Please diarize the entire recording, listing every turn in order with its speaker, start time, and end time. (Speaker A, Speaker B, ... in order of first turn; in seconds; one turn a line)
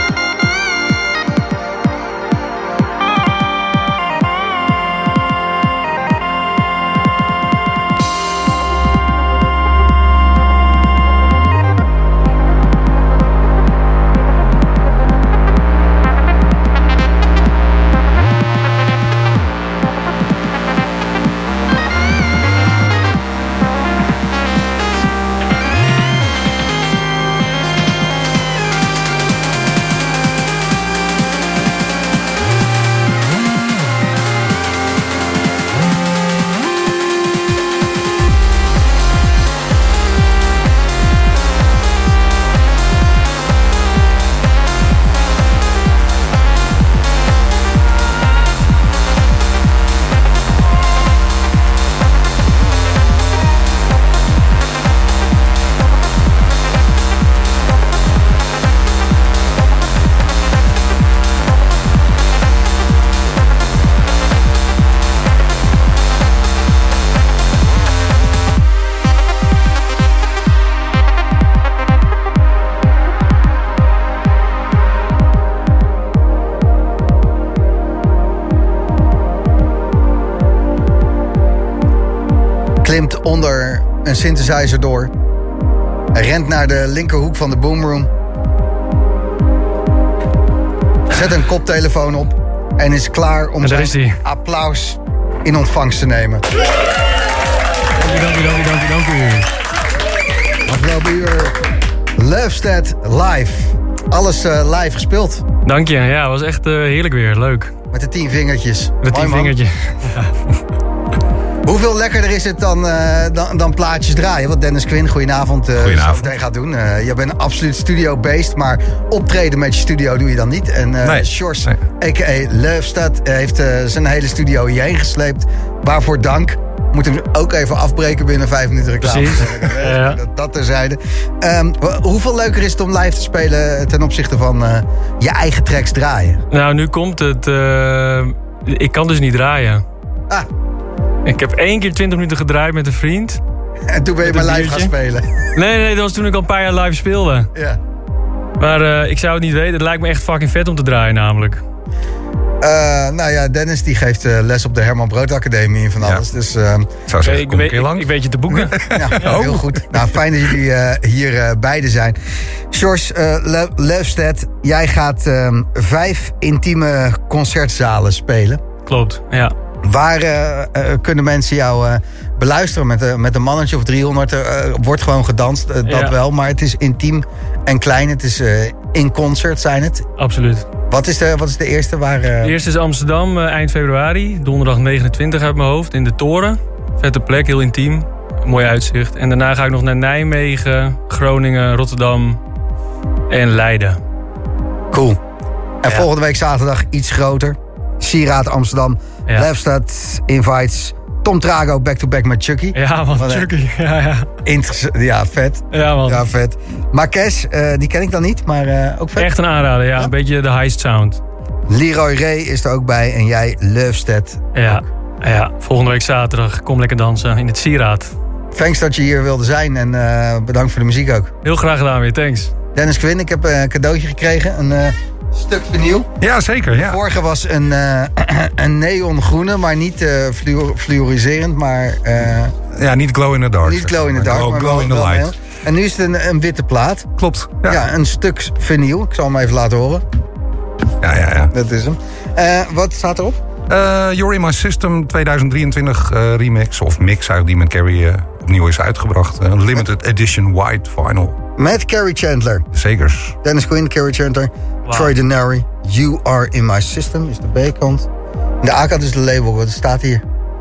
Speaker A: 82.8-85.1
Speaker A: 86.1-88.1
Speaker A: 91.1-96.4
Speaker B: 93.6-94.2
Speaker B: 98.0-99.5
Speaker A: 100.7-101.5
Speaker A: 102.2-105.4
Speaker B: 105.7-107.7
Speaker A: 107.9-109.6
Speaker B: 109.0-110.3
Speaker A: 111.7-136.4
Speaker C: 115.8-116.3
Speaker C: 121.0-121.8
Speaker B: 129.0-130.2
Speaker B: 136.5-139.8
Speaker B: 141.3-143.4
Speaker A: 143.9-145.3
Speaker B: 144.2-144.9
Speaker B: 145.6-147.5
Speaker A: 147.5-147.8
Speaker B: 148.6-151.6
Speaker A: 152.6-156.9
Speaker C: 157.1-159.9
Speaker B: 157.2-159.3
Speaker A: 158.9-162.2
Speaker A: 162.7-168.6
Speaker B: 168.9-169.5
Speaker A: 169.8-180.1
Speaker B: 175.9-176.2
Speaker B: 180.2-180.7
Speaker A: 180.9-182.6
Speaker B: 182.4-192.4
Speaker B: 193.3-194.0
Speaker A: 194.9-195.2
Speaker A: 195.8-203.5
Speaker B: 202.8-204.3
Speaker A: 204.4-209.3
Speaker B: 205.7-206.2
Speaker B: 209.2-211.2
Speaker A: 211.7-214.8
Speaker B: 214.6-218.1
Speaker A: 218.5-221.3
Speaker B: 221.4-222.5
Speaker A: 222.8-226.1
Speaker C: 226.2-227.0
Speaker A: 226.8-232.5
Speaker C: 232.8-235.3
Speaker A: 233.6-237.1
Speaker C: 237.2-237.8
Speaker A: 237.7-240.0
Speaker C: 241.0-241.5
Speaker A: 241.5-243.4
Speaker C: 243.7-251.4
Speaker A: 251.6-252.7
Speaker C: 252.7-253.4
Speaker A: 253.4-258.1
Speaker A: 258.6-260.2